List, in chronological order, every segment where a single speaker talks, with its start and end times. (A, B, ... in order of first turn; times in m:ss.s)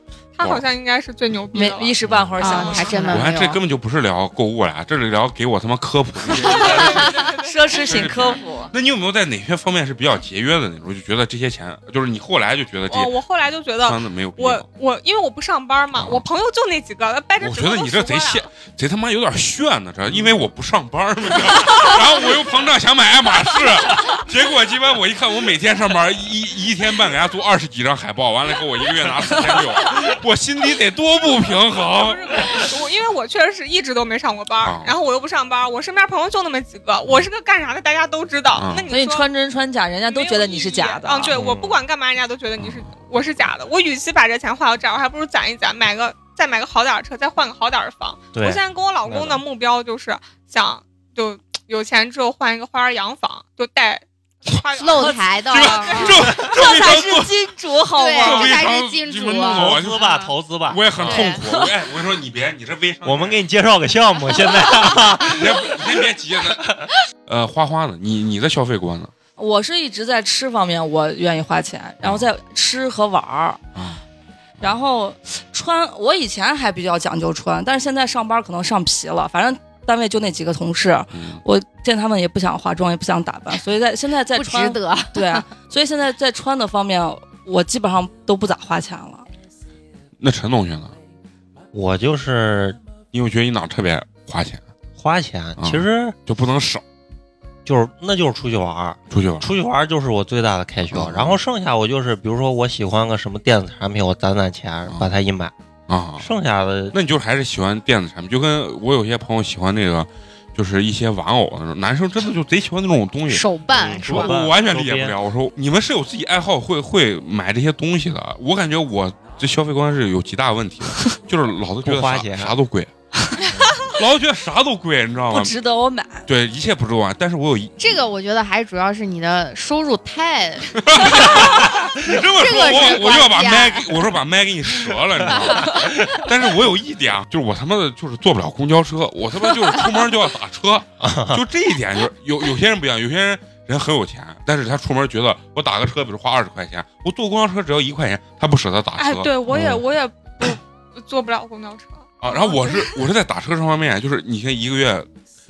0:00.4-0:03.0 A
0:00.4-0:00.6 B
0:01.5-0:03.2 C
0:02.4-0:03.6 D
0:03.1-0:07.2 B
0:06.3-0:08.1 A
0:06.9-0:08.7 C
0:07.7-0:13.1 B
0:12.9-0:18.5 A
0:13.8-0:14.7 B
0:15.9-0:16.2 B
0:17.4-0:32.7 B
0:31.9-0:39.3 A
0:34.6-0:35.0 B
0:38.6-0:38.8 B
0:38.9-0:41.4 C
0:40.1-0:56.1 A
0:41.3-0:41.8 E
0:42.6-0:42.9 B
0:48.4-0:49.4 E
0:54.8-0:56.2 D
0:55.5-0:57.4 B
0:55.9-0:58.6 C
0:58.0-1:00.3 D
0:58.2-1:00.1 B
0:59.4-1:01.3 E
1:00.7-1:03.4 B
1:01.0-1:01.4 D
1:03.0-1:05.8 E
1:05.2-1:06.7 B
1:07.2-1:09.1 B
1:09.4-1:13.6 C
1:12.0-1:12.3 B
1:13.8-1:14.0 B
1:14.6-1:29.2 C
1:21.1-1:21.4 B
1:24.3-1:25.5 D
1:30.2-1:31.0 B
1:31.7-1:32.8 E
1:33.1-1:34.6 B
1:35.0-1:36.2 E
1:35.6-1:36.8 B
1:37.6-1:45.5 E
1:39.1-1:39.5 B
1:40.9-1:41.4 B
1:44.9-1:45.1 B
1:45.9-1:46.3 B
1:46.2-1:47.0 E
1:46.9-2:02.9 B
1:53.3-1:54.4 D
1:53.8-1:55.2 E
2:01.8-2:02.6 E
2:03.5-2:03.9 E
2:03.8-2:05.6 B
2:05.3-2:06.3 C
2:06.3-2:07.9 B
2:07.8-2:14.0 D
2:10.7-2:29.3 B
2:15.3-2:15.6 D
2:15.7-2:16.2 E
2:21.0-2:21.4 E
2:29.0-2:33.0 A
2:29.5-2:29.8 E
2:32.2-2:35.1 B